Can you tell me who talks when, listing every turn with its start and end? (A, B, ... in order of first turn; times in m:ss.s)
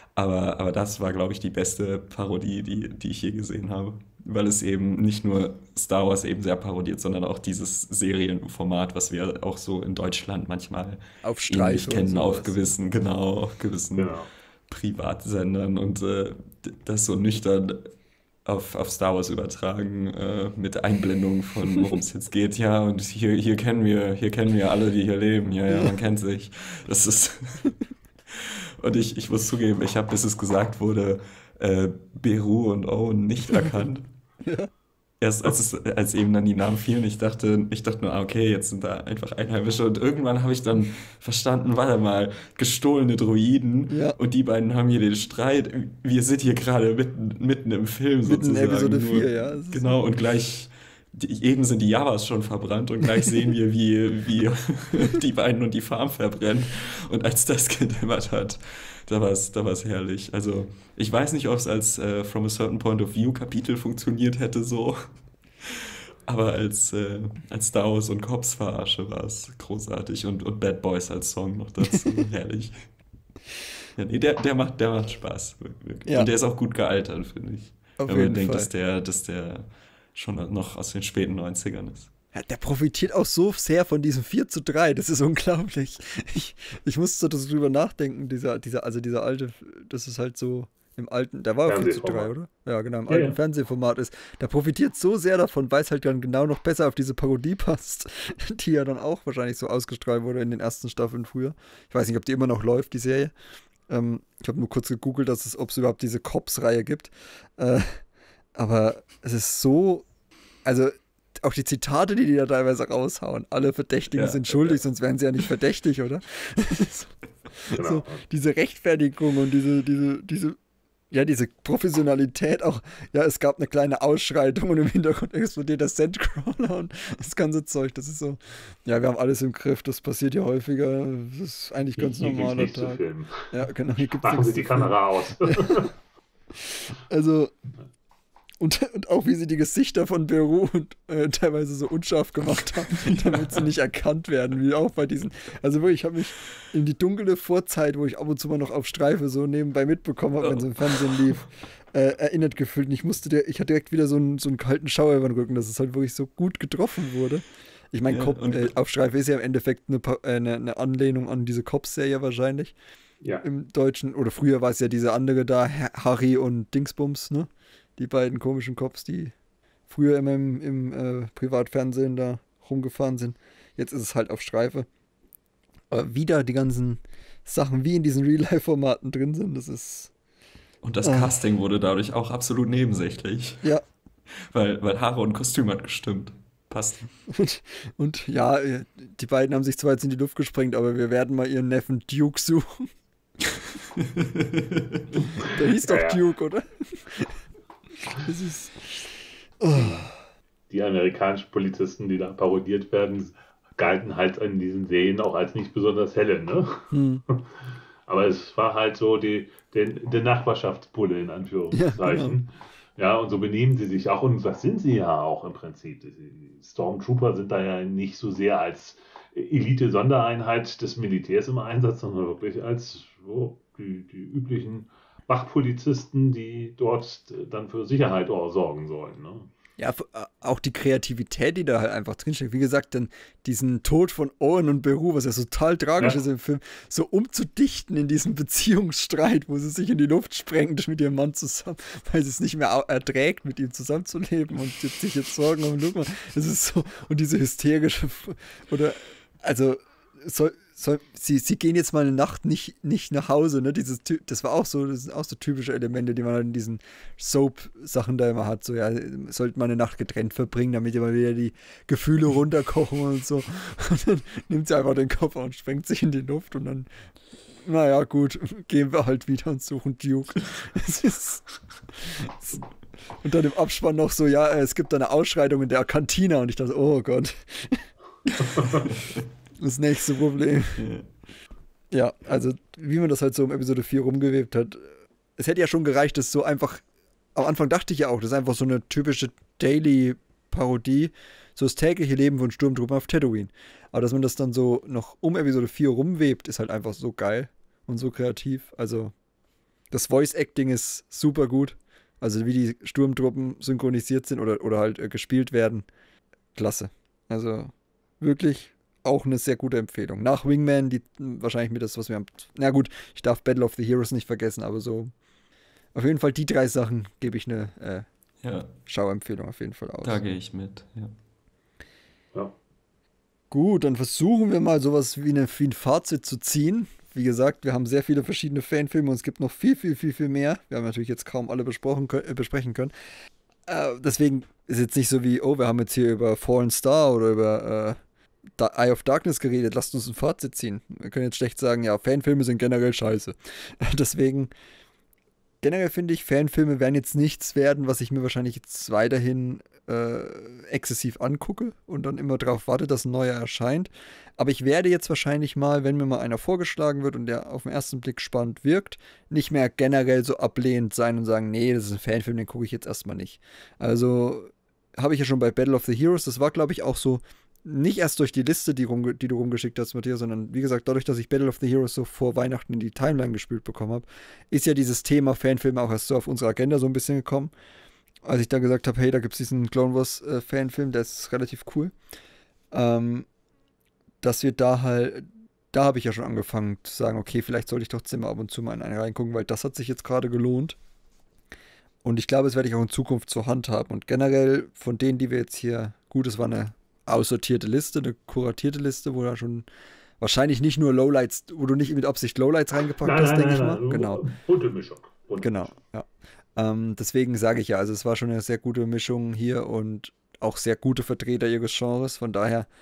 0:00.2-0:14.2 A
0:11.2-0:12.6 B
0:13.9-0:14.3 C
0:14.7-0:17.9 A
0:18.4-0:27.8 A
0:25.7-0:26.0 B
0:28.3-0:34.1 A
0:34.4-0:34.7 B
0:35.2-1:05.0 A
0:43.9-0:44.2 B
0:48.2-0:49.9 B
1:05.6-1:12.8 A
1:14.0-1:22.1 A
1:18.0-1:18.7 B
1:22.3-1:43.3 B
1:31.7-1:32.3 C
1:33.1-1:33.4 C
1:43.9-1:48.0 B
1:48.6-1:50.0 B
1:50.6-2:00.6 B
1:54.1-1:54.8 A
1:57.8-1:58.2 C
2:01.1-2:13.0 B
2:12.0-2:15.9 C
2:13.5-2:15.8 B
2:16.6-2:17.5 B
2:18.6-2:42.8 B
2:23.0-2:23.5 A
2:30.4-2:31.2 A
2:38.1-2:38.7 A
2:43.4-2:49.3 B
2:49.9-2:54.9 B
2:55.9-3:00.1 B
3:00.8-3:03.7 A
3:01.0-3:01.3 B
3:04.3-3:07.1 A
3:07.3-3:12.9 B
3:14.0-3:15.0 A
3:15.2-3:17.4 B
3:15.8-3:16.2 C
3:18.1-3:20.1 B
3:19.7-3:20.1 C
3:20.7-3:27.4 C
3:26.9-3:27.2 B
3:28.1-3:49.5 C
3:31.7-3:32.4 B
3:49.8-4:26.9 B
4:27.6-4:32.6 B
4:33.2-4:39.0 B
4:39.6-4:40.9 B
4:40.8-4:41.1 A
4:41.9-4:46.8 B
4:47.4-4:59.1 B
4:59.9-5:05.9 B
5:06.6-5:15.1 B
5:15.9-5:18.1 B
5:18.4-5:18.7 A
5:18.9-5:20.2 B
5:20.0-5:21.1 A
5:23.5-5:32.9 B
5:33.7-5:38.0 B
5:38.6-5:44.5 B
5:45.6-6:17.5 B
6:18.2-6:21.9 B
6:22.7-6:23.3 B
6:24.2-6:30.8 B
6:32.0-6:39.7 B
6:40.2-6:44.2 B
6:43.0-6:45.7 C
6:45.4-6:52.7 B